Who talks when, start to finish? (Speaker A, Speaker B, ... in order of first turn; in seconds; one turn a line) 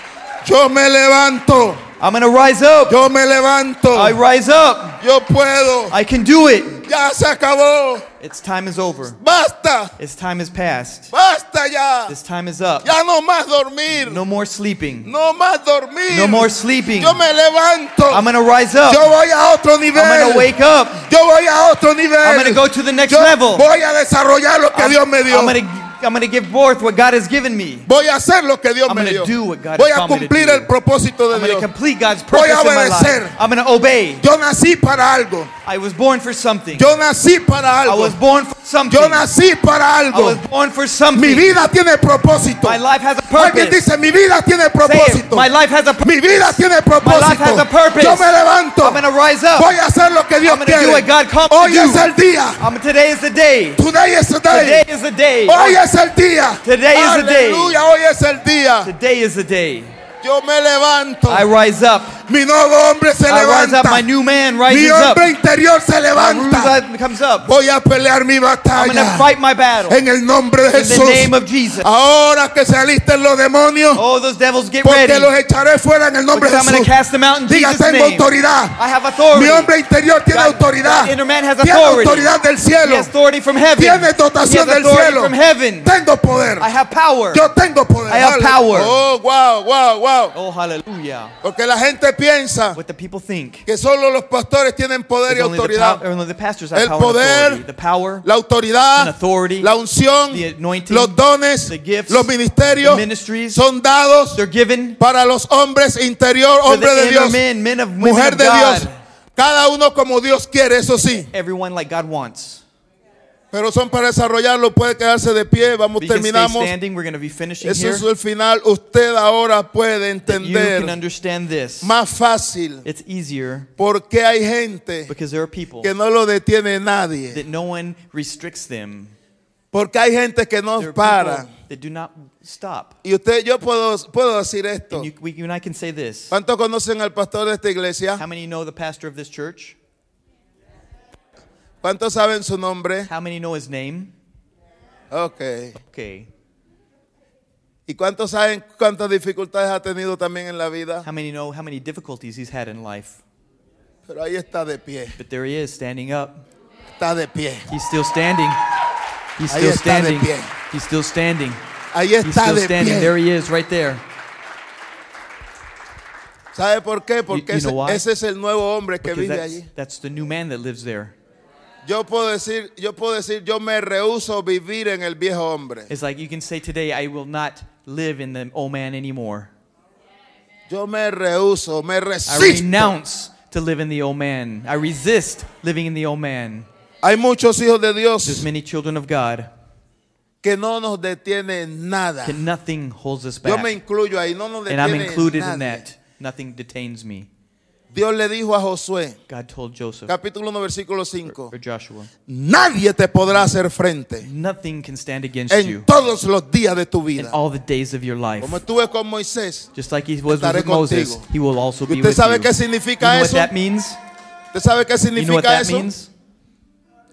Speaker A: 0.4-1.8
Speaker B: 2.0-3.0
Speaker A: 2.9-4.2
Speaker B: 3.9-5.0
Speaker A: 5.0-6.0
Speaker B: 5.9-6.9
Speaker A: 6.8-8.1
Speaker B: 8.2-9.2
Speaker A: 9.2-9.9
Speaker B: 10.0-11.1
Speaker A: 11.1-12.2
Speaker B: 12.1-12.9
Speaker A: 12.8-14.2
Speaker B: 13.9-15.1
Speaker A: 15.1-18.2
Speaker B: 16.1-17.2
Speaker B: 18.1-19.1
Speaker A: 18.9-20.5
Speaker B: 19.9-21.1
Speaker A: 21.1-25.6
Speaker B: 22.2-23.7
Speaker B: 24.7-27.9
Speaker A: 27.9-31.7
Speaker B: 28.9-30.7
Speaker B: 31.3-34.2
Speaker A: 32.3-33.4
Speaker A: 34.2-35.5
Speaker B: 35.6-36.9
Speaker A: 36.8-38.2
Speaker B: 37.8-39.3
Speaker A: 38.9-40.4
Speaker B: 40.1-41.5
Speaker A: 41.1-42.8
Speaker B: 42.6-43.8
Speaker A: 43.4-45.5
Speaker B: 44.8-49.7
Speaker A: 46.0-49.0
Speaker A: 49.6-52.6
Speaker B: 50.4-53.8
Speaker A: 53.8-54.9
Speaker B: 54.5-55.8
Speaker A: 55.5-58.9
Speaker B: 56.6-57.8
Speaker B: 58.8-59.9
Speaker A: 60.2-61.5
Speaker B: 61.3-62.2
Speaker A: 62.3-64.1
Speaker B: 63.3-65.3
Speaker A: 64.7-66.7
Speaker B: 66.1-67.5
Speaker A: 67.4-69.3
Speaker B: 68.7-70.0
Speaker A: 69.9-74.0
Speaker B: 70.7-71.9
Speaker B: 73.9-75.3
Speaker A: 74.8-76.9
Speaker B: 76.3-79.7
Speaker A: 77.5-78.8
Speaker A: 79.3-83.1
Speaker B: 80.3-85.9
Speaker A: 83.8-86.7
Speaker B: 86.6-87.5
Speaker A: 87.3-90.3
Speaker B: 88.1-89.0
Speaker B: 90.3-91.3
Speaker A: 91.4-92.8
Speaker B: 92.8-93.7
Speaker A: 93.7-96.0
Speaker B: 95.3-98.3
Speaker A: 96.7-97.6
Speaker A: 98.2-104.4
Speaker B: 99.0-99.7
Speaker B: 100.3-103.6
Speaker B: 104.3-105.0
Speaker A: 105.0-107.4
Speaker B: 106.7-108.9
Speaker A: 108.0-111.3
Speaker B: 111.3-112.6
Speaker A: 113.5-116.7
Speaker B: 116.0-118.1
Speaker A: 117.6-121.0
Speaker B: 120.3-121.9
Speaker A: 121.8-122.8
Speaker B: 122.8-123.7
Speaker A: 123.8-125.1
Speaker B: 125.1-125.9
Speaker A: 125.8-127.4
Speaker B: 127.3-129.2
Speaker A: 129.7-131.5
Speaker B: 130.8-133.0
Speaker A: 133.0-135.1
Speaker B: 134.9-136.3
Speaker A: 136.3-138.2
Speaker B: 138.2-139.8
Speaker A: 141.8-143.1
Speaker B: 143.1-144.1
Speaker A: 145.1-145.8
Speaker B: 145.8-146.3
Speaker A: 147.9-151.1
Speaker B: 151.1-153.2
Speaker A: 154.1-155.2
Speaker B: 155.2-156.4
Speaker A: 156.9-157.7
Speaker B: 157.7-158.6
Speaker B: 159.4-161.6
Speaker A: 159.5-160.5
Speaker A: 161.9-163.1
Speaker B: 162.2-164.0
Speaker A: 166.5-169.7
Speaker B: 167.3-168.1
Speaker B: 169.0-171.2
Speaker A: 171.8-175.9
Speaker B: 175.9-179.5
Speaker A: 180.7-182.9
Speaker B: 182.3-186.7
Speaker A: 187.0-188.5
Speaker B: 188.2-189.5
Speaker A: 190.4-192.4
Speaker B: 192.2-193.8
Speaker A: 193.4-195.8
Speaker B: 194.7-197.3
Speaker A: 197.9-199.2
Speaker B: 199.3-200.1
Speaker A: 200.1-201.5
Speaker B: 201.3-202.1
Speaker A: 202.3-204.3
Speaker B: 203.3-203.6
Speaker B: 204.2-205.9
Speaker A: 205.5-207.4
Speaker B: 207.2-208.6
Speaker A: 208.4-209.7
Speaker B: 209.8-214.0
Speaker A: 210.3-211.2
Speaker A: 211.9-213.5
Speaker A: 214.5-215.9
Speaker B: 215.2-216.1